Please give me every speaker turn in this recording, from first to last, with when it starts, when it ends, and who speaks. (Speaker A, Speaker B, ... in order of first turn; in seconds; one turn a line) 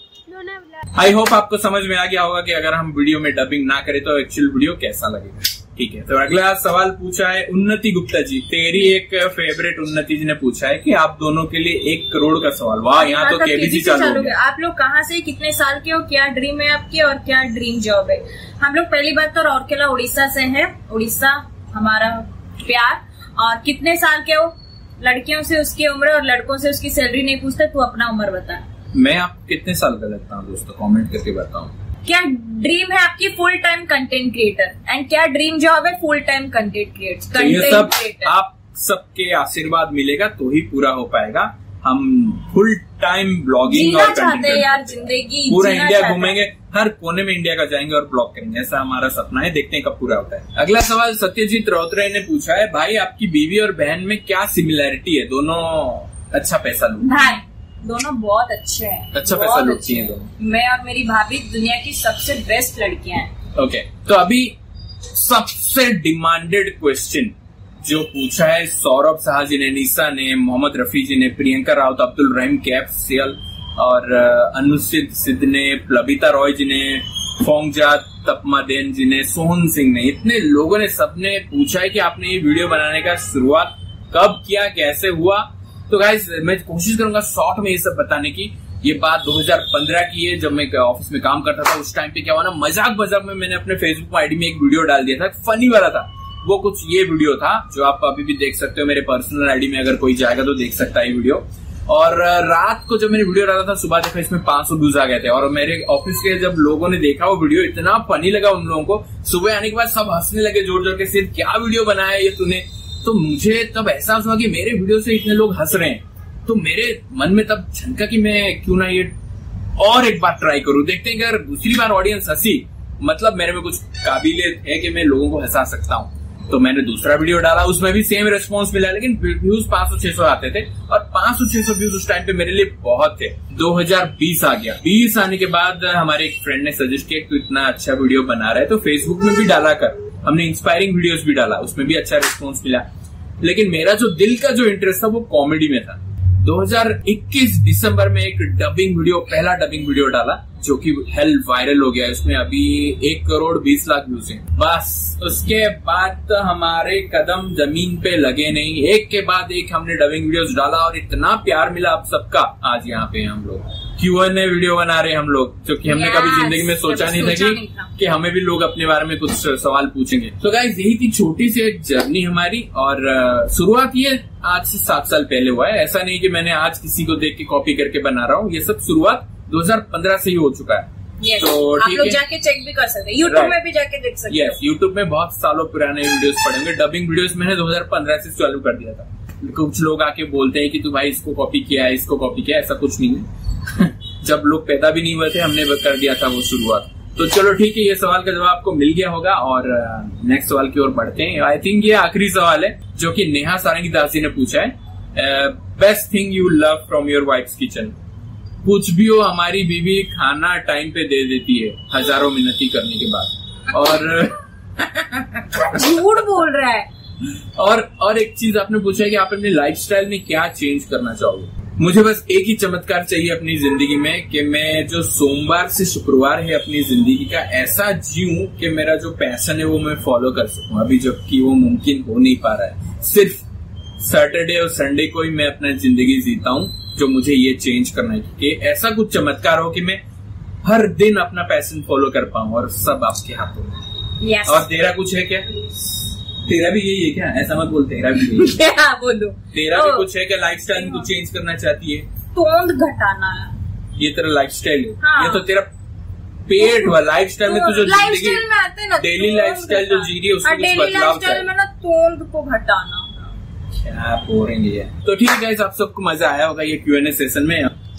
Speaker A: 0.9-14.3
Speaker B: 12.9-28.6
Speaker A: 28.9-31.7
Speaker B: 32.0-38.3
Speaker A: 37.4-57.4
Speaker B: 43.6-46.4
Speaker B: 57.0-63.3
Speaker A: 59.1-60.3
Speaker A: 63.5-64.6
Speaker A: 65.1-119.1
Speaker A: 119.8-142.8
Speaker A: 143.4-182.2
Speaker B: 165.9-167.9
Speaker B: 181.2-184.6
Speaker A: 183.2-183.6
Speaker A: 184.3-207.9
Speaker A: 208.6-216.2
Speaker B: 215.6-216.9
Speaker A: 217.6-233.5
Speaker A: 234.0-240.0
Speaker A: 240.6-243.8
Speaker B: 244.2-244.7
Speaker A: 244.4-248.6
Speaker B: 248.2-250.1
Speaker A: 249.5-252.1
Speaker B: 250.7-251.1
Speaker B: 252.3-253.6
Speaker A: 254.0-255.7
Speaker B: 255.0-255.5
Speaker A: 256.5-258.4
Speaker B: 256.6-263.4
Speaker A: 259.0-261.5
Speaker A: 263.7-267.7